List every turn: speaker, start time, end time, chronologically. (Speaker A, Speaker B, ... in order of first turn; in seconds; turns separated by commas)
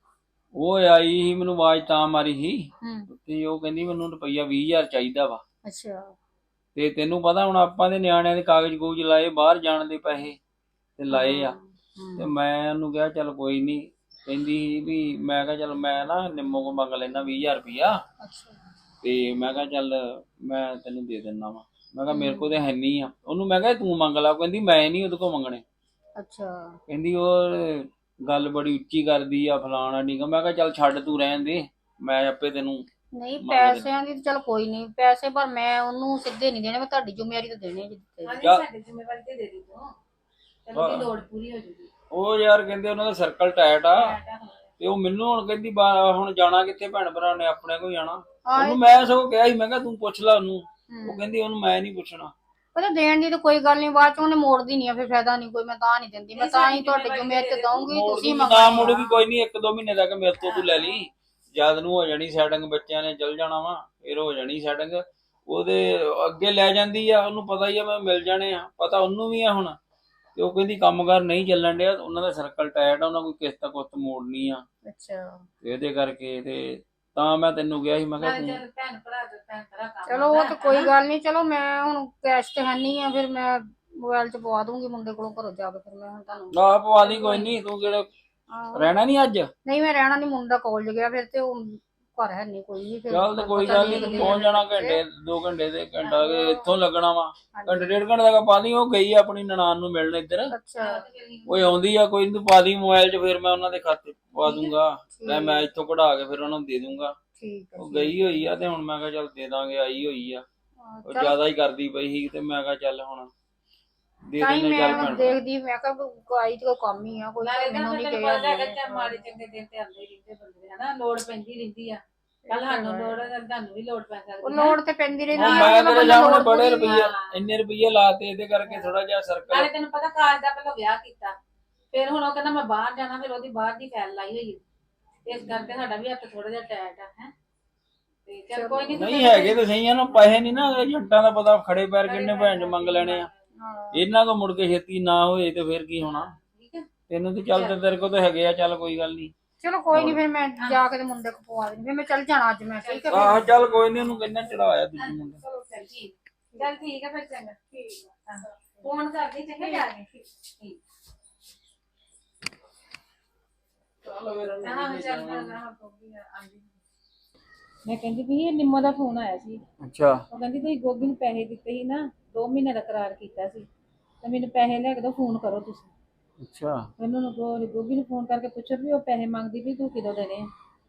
Speaker A: 0.5-5.4, Speaker B: 5.6-6.1, Speaker A: 6.8-10.4, Speaker A: 11.0-11.6, Speaker B: 11.1-12.3, Speaker A: 12.2-17.9, Speaker B: 18.2-18.6, Speaker A: 19.0-25.6, Speaker B: 22.1-22.5, Speaker B: 26.2-26.8, Speaker A: 26.9-32.8, Speaker B: 33.1-38.4, Speaker A: 33.4-33.9, Speaker C: 38.2-39.9, Speaker C: 40.6-41.9, Speaker A: 40.7-41.1, Speaker A: 42.1-44.1, Speaker C: 43.9-44.7, Speaker A: 44.8-52.3, Speaker B: 48.5-48.9, Speaker B: 50.9-51.2, Speaker B: 52.7-59.0, Speaker C: 56.3-57.9, Speaker A: 57.9-69.8, Speaker A: 70.3-74.6, Speaker B: 74.8-75.4, Speaker A: 75.6-78.6, Speaker C: 78.2-80.9, Speaker B: 80.0-86.6, Speaker A: 86.5-88.1, Speaker C: 87.0-87.5, Speaker B: 88.5-88.9, Speaker A: 88.7-89.5, Speaker B: 89.6-95.0, Speaker A: 93.1-100.5, Speaker C: 93.6-94.4, Speaker B: 96.1-96.4, Speaker B: 97.5-97.9, Speaker B: 100.5-101.0, Speaker C: 100.8-101.7, Speaker A: 101.5-107.1, Speaker C: 104.4-104.7, Speaker B: 105.2-105.6, Speaker B: 107.4-108.3, Speaker A: 107.8-110.4, Speaker B: 110.8-111.4, Speaker A: 111.0-113.3, Speaker A: 114.3-115.4, Speaker B: 114.4-119.2, Speaker C: 117.4-124.8, Speaker B: 122.5-123.2, Speaker B: 124.4-127.0, Speaker C: 125.3-127.3, Speaker A: 125.3-129.7, Speaker C: 129.5-131.3, Speaker C: 131.9-134.6, Speaker C: 135.3-137.3, Speaker B: 135.3-135.8, Speaker C: 138.2-139.6, Speaker B: 138.5-139.0, Speaker A: 138.9-143.3, Speaker C: 142.0-143.3, Speaker B: 143.6-144.0, Speaker A: 143.9-146.3, Speaker C: 146.0-146.9, Speaker A: 147.1-149.3, Speaker B: 149.6-153.5, Speaker A: 149.9-150.2, Speaker C: 152.8-154.3, Speaker A: 153.1-155.4, Speaker C: 154.9-160.8, Speaker B: 156.5-156.8, Speaker B: 159.6-159.8, Speaker A: 164.0-165.6, Speaker C: 164.6-166.7, Speaker C: 167.8-169.6, Speaker A: 169.8-170.2, Speaker C: 170.3-173.7, Speaker C: 174.2-175.9, Speaker A: 176.4-176.9, Speaker C: 177.0-180.5